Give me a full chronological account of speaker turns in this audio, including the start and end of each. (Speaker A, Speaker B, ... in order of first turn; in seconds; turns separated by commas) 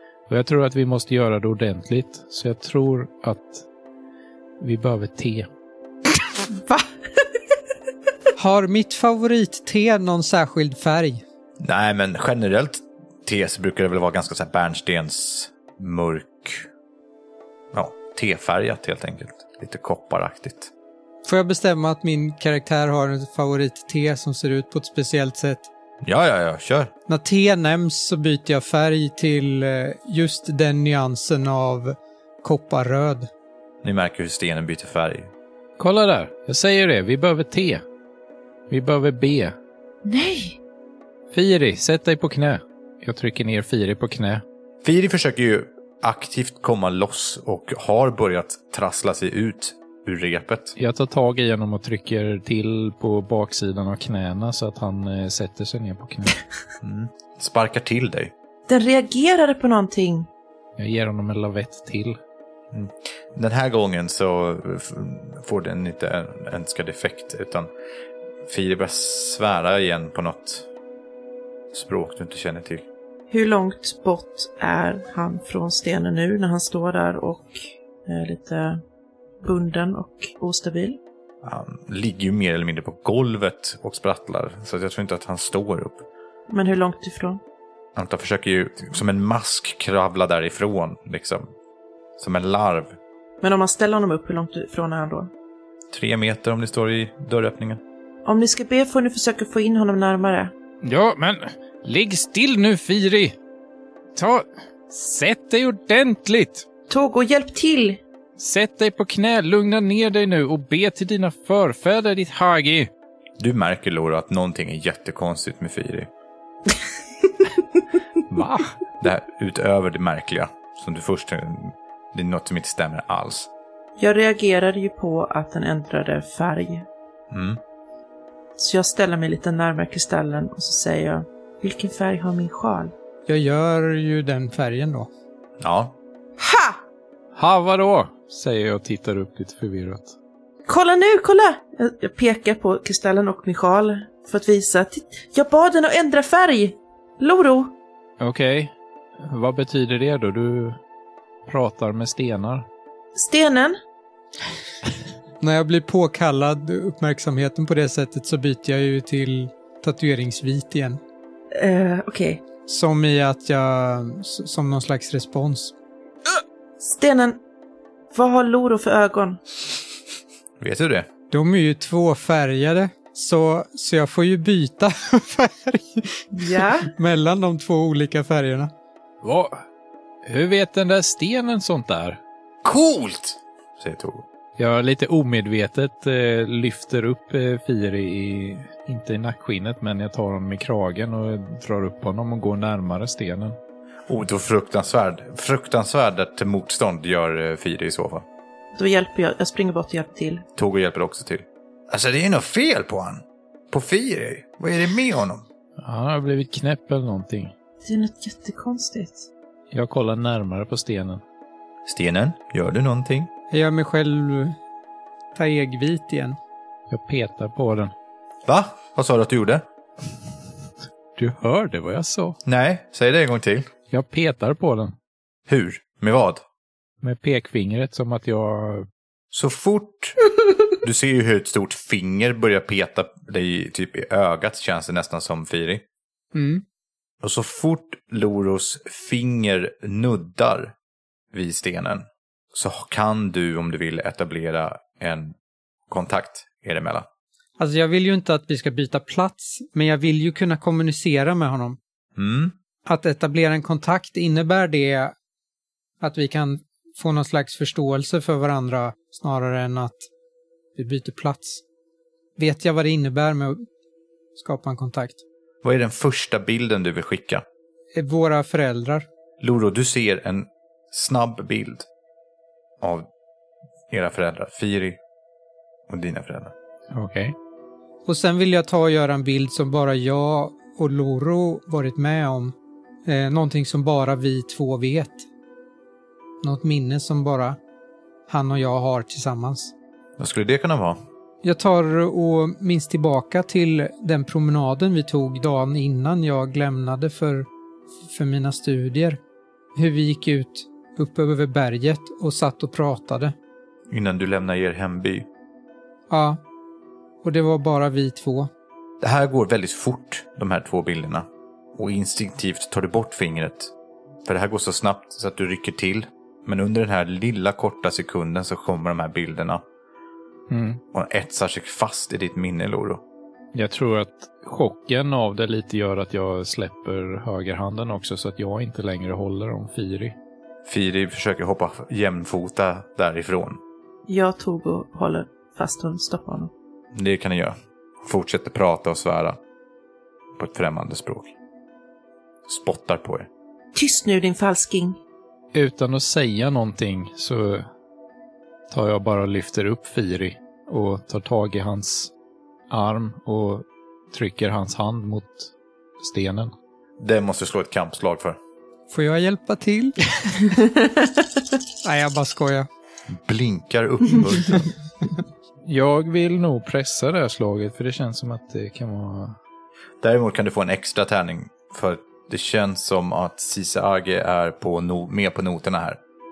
Speaker A: 0.3-3.6, Speaker A: 4.6-5.5, Speaker B: 8.4-11.2, Speaker C: 11.6-16.7, Speaker C: 17.7-20.7, Speaker B: 21.2-25.7, Speaker C: 26.0-26.9, Speaker B: 27.1-33.3, Speaker C: 33.8-35.3, Speaker A: 35.8-37.8, Speaker A: 38.7-39.5, Speaker D: 40.0-40.6, Speaker A: 41.3-44.4, Speaker C: 44.8-50.7, Speaker A: 50.8-56.4, Speaker C: 56.8-58.3, Speaker D: 58.7-60.3, Speaker A: 60.8-62.2, Speaker C: 62.7-67.7, Speaker C: 68.4-70.7, Speaker C: 71.7-72.8, Speaker D: 73.3-78.8, Speaker D: 79.4-81.0, Speaker C: 81.4-86.0, Speaker D: 86.5-87.4, Speaker C: 88.0-91.5, Speaker C: 92.2-93.0, Speaker D: 93.4-95.3, Speaker C: 95.9-97.8, Speaker D: 98.2-100.5, Speaker A: 100.8-103.3, Speaker A: 104.1-106.6, Speaker D: 106.9-108.0, Speaker A: 108.4-112.9, Speaker C: 113.4-116.1, Speaker A: 118.3-118.8, Speaker C: 119.0-123.5, Speaker D: 124.0-126.9, Speaker C: 127.3-127.6, Speaker D: 128.6-132.9, Speaker B: 133.3-135.1, Speaker C: 135.6-135.9, Speaker D: 136.4-136.8, Speaker A: 137.3-140.1, Speaker D: 140.7-147.7, Speaker A: 148.2-150.8, Speaker A: 151.5-152.6, Speaker D: 153.1-153.8, Speaker B: 155.4-161.0, Speaker D: 161.5-162.4, Speaker B: 162.7-165.7, Speaker D: 166.8-167.4, Speaker D: 168.1-169.4, Speaker C: 170.6-171.1, Speaker B: 171.3-178.7, Speaker D: 176.3-176.9, Speaker A: 179.2-179.6, Speaker A: 180.2-182.2, Speaker C: 182.6-184.2, Speaker A: 184.6-193.6, Speaker C: 194.1-198.2, Speaker D: 198.7-200.4, Speaker C: 200.6-205.4, Speaker A: 205.8-207.5, Speaker D: 207.8-209.3, Speaker A: 209.7-211.2, Speaker C: 211.8-213.3, Speaker B: 213.5-214.6, Speaker B: 215.3-216.4, Speaker A: 216.9-217.9, Speaker C: 218.4-219.6, Speaker A: 221.2-222.4, Speaker C: 222.4-223.7, Speaker A: 223.9-224.9, Speaker C: 225.5-226.4, Speaker A: 227.0-228.9, Speaker C: 229.3-230.2, Speaker C: 230.7-235.8, Speaker B: 236.3-236.6, Speaker C: 237.2-240.7, Speaker C: 241.3-245.3, Speaker C: 245.9-247.1, Speaker B: 247.6-251.8, Speaker C: 252.2-252.5, Speaker B: 252.8-255.1, Speaker B: 256.0-260.1, Speaker B: 260.7-261.6, Speaker B: 262.4-263.6, Speaker B: 264.4-265.2, Speaker C: 265.6-267.4, Speaker B: 267.9-269.1, Speaker C: 269.4-271.9, Speaker C: 272.8-273.1, Speaker C: 273.9-275.0, Speaker C: 275.9-276.5, Speaker A: 276.9-277.3, Speaker B: 278.1-282.5, Speaker B: 283.1-285.2, Speaker B: 286.4-287.6, Speaker B: 288.3-289.7, Speaker C: 290.2-291.0, Speaker B: 291.4-297.5, Speaker B: 298.1-299.2, Speaker B: 299.7-303.3, Speaker C: 303.9-305.2, Speaker B: 306.1-306.4, Speaker B: 307.2-308.5, Speaker C: 309.0-313.7, Speaker C: 314.2-319.6, Speaker A: 320.5-320.8, Speaker C: 320.9-323.0, Speaker A: 323.5-330.1, Speaker C: 330.6-333.6, Speaker D: 334.1-336.5, Speaker C: 336.9-339.4, Speaker C: 340.4-341.3, Speaker C: 342.5-343.3, Speaker D: 343.7-345.0, Speaker A: 345.5-347.6, Speaker A: 348.7-352.1, Speaker A: 352.7-356.5, Speaker C: 357.0-358.4, Speaker B: 358.9-360.4, Speaker B: 361.8-362.7, Speaker C: 363.1-364.7, Speaker A: 365.6-369.4, Speaker C: 370.0-376.0